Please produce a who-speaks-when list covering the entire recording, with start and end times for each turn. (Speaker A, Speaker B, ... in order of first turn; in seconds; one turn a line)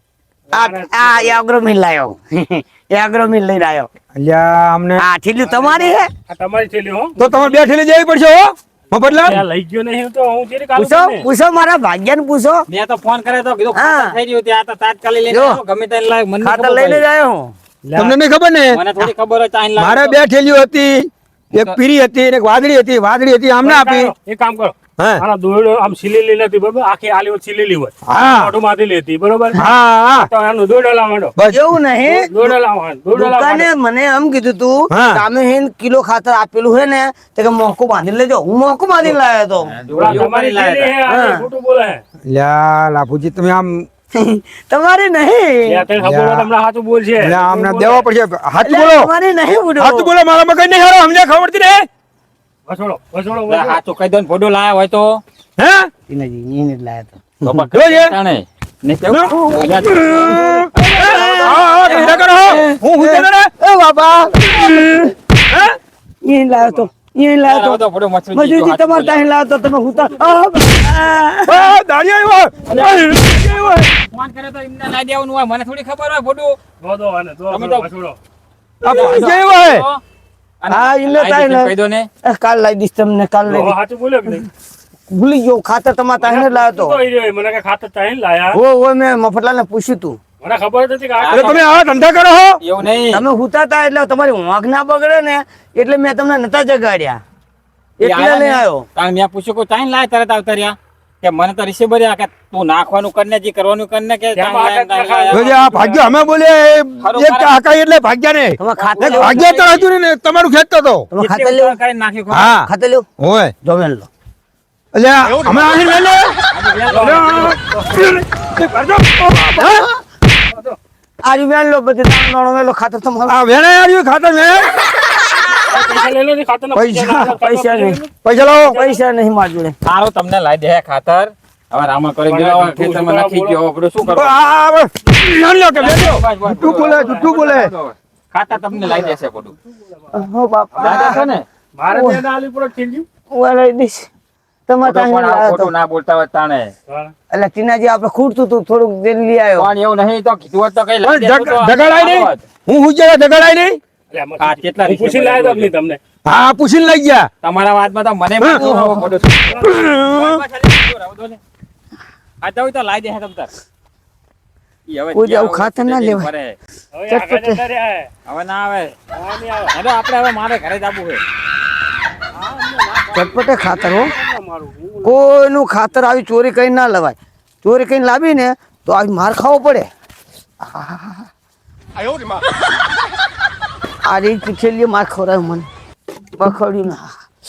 Speaker A: 0.5-1.4
Speaker B: 0.5-3.9
Speaker C: 4.1-5.0
Speaker B: 5.0-6.1
Speaker D: 5.5-5.8
Speaker A: 6.3-7.2
Speaker C: 7.2-9.4
Speaker A: 9.1-11.2
Speaker B: 10.8-12.7
Speaker D: 12.7-17.0
Speaker B: 13.7-14.2
Speaker B: 15.3-15.6
Speaker B: 16.4-17.5
Speaker A: 17.9-18.1
Speaker C: 18.0-18.8
Speaker D: 18.7-20.2
Speaker C: 19.8-24.1
Speaker A: 23.6-31.3
Speaker C: 25.0-25.2
Speaker C: 28.1-28.5
Speaker C: 29.5-30.3
Speaker C: 31.4-31.7
Speaker B: 31.5-32.5
Speaker A: 32.1-33.7
Speaker B: 33.1-40.2
Speaker C: 34.9-35.2
Speaker D: 39.7-41.0
Speaker A: 40.0-42.0
Speaker B: 41.1-41.5
Speaker C: 42.3-43.9
Speaker B: 44.1-45.9
Speaker A: 45.7-48.1
Speaker C: 46.0-46.5
Speaker C: 47.2-49.1
Speaker B: 48.6-50.1
Speaker C: 49.8-51.9
Speaker A: 52.7-53.8
Speaker D: 53.5-55.2
Speaker C: 55.6-55.9
Speaker B: 56.1-57.6
Speaker D: 57.4-60.4
Speaker C: 57.7-58.1
Speaker C: 59.1-63.5
Speaker B: 59.3-65.1
Speaker C: 64.5-64.9
Speaker C: 65.5-65.8
Speaker B: 66.2-67.8
Speaker A: 66.5-66.9
Speaker D: 67.4-69.2
Speaker B: 68.3-71.7
Speaker C: 71.5-73.9
Speaker A: 72.7-73.0
Speaker D: 73.4-76.6
Speaker A: 76.8-78.2
Speaker D: 77.5-77.9
Speaker C: 78.8-79.9
Speaker D: 78.8-80.0
Speaker D: 80.6-82.1
Speaker B: 80.7-81.7
Speaker B: 82.2-83.7
Speaker A: 83.5-84.5
Speaker B: 85.1-87.0
Speaker A: 86.2-88.6
Speaker B: 88.5-90.2
Speaker A: 90.4-91.7
Speaker D: 91.2-91.6
Speaker C: 91.3-92.6
Speaker D: 92.6-93.2
Speaker B: 93.1-97.2
Speaker B: 98.0-98.8
Speaker D: 98.0-105.4
Speaker A: 104.4-106.3
Speaker C: 105.3-111.1
Speaker D: 107.0-107.6
Speaker B: 108.6-109.4
Speaker D: 108.8-109.9
Speaker B: 111.1-111.8
Speaker D: 111.2-112.6
Speaker C: 112.3-113.5
Speaker B: 112.6-113.1
Speaker B: 113.6-114.1
Speaker C: 114.9-116.3
Speaker D: 116.5-117.5
Speaker A: 116.9-117.9
Speaker C: 117.0-119.9
Speaker B: 119.6-119.9
Speaker B: 121.2-123.3
Speaker C: 123.3-124.8
Speaker A: 125.7-128.1
Speaker C: 126.8-127.3
Speaker B: 127.4-128.0
Speaker C: 128.2-128.8
Speaker A: 128.7-129.0
Speaker B: 128.7-129.8
Speaker D: 129.8-134.5
Speaker A: 132.3-133.6
Speaker C: 134.1-137.7
Speaker D: 135.7-139.5
Speaker B: 138.8-139.1
Speaker B: 140.1-141.2
Speaker A: 140.8-143.1
Speaker D: 140.8-141.5
Speaker B: 141.9-142.2
Speaker B: 143.3-144.1
Speaker B: 144.7-145.7
Speaker D: 144.8-146.7
Speaker A: 146.9-147.1
Speaker B: 147.3-149.7
Speaker D: 149.5-152.4
Speaker C: 151.0-153.8
Speaker A: 154.1-156.0
Speaker D: 154.4-155.7
Speaker C: 156.2-157.3
Speaker D: 157.4-161.4
Speaker C: 158.4-158.7
Speaker B: 158.5-159.2
Speaker C: 159.6-160.4
Speaker D: 162.4-163.5
Speaker D: 164.9-166.5
Speaker B: 165.1-166.3
Speaker A: 166.9-168.1
Speaker B: 167.1-167.6
Speaker D: 168.2-168.9
Speaker A: 169.1-169.8
Speaker D: 169.7-171.2
Speaker A: 172.3-175.2
Speaker B: 173.1-174.1
Speaker B: 175.0-179.9
Speaker B: 180.6-181.3
Speaker B: 184.0-185.7
Speaker B: 186.4-187.1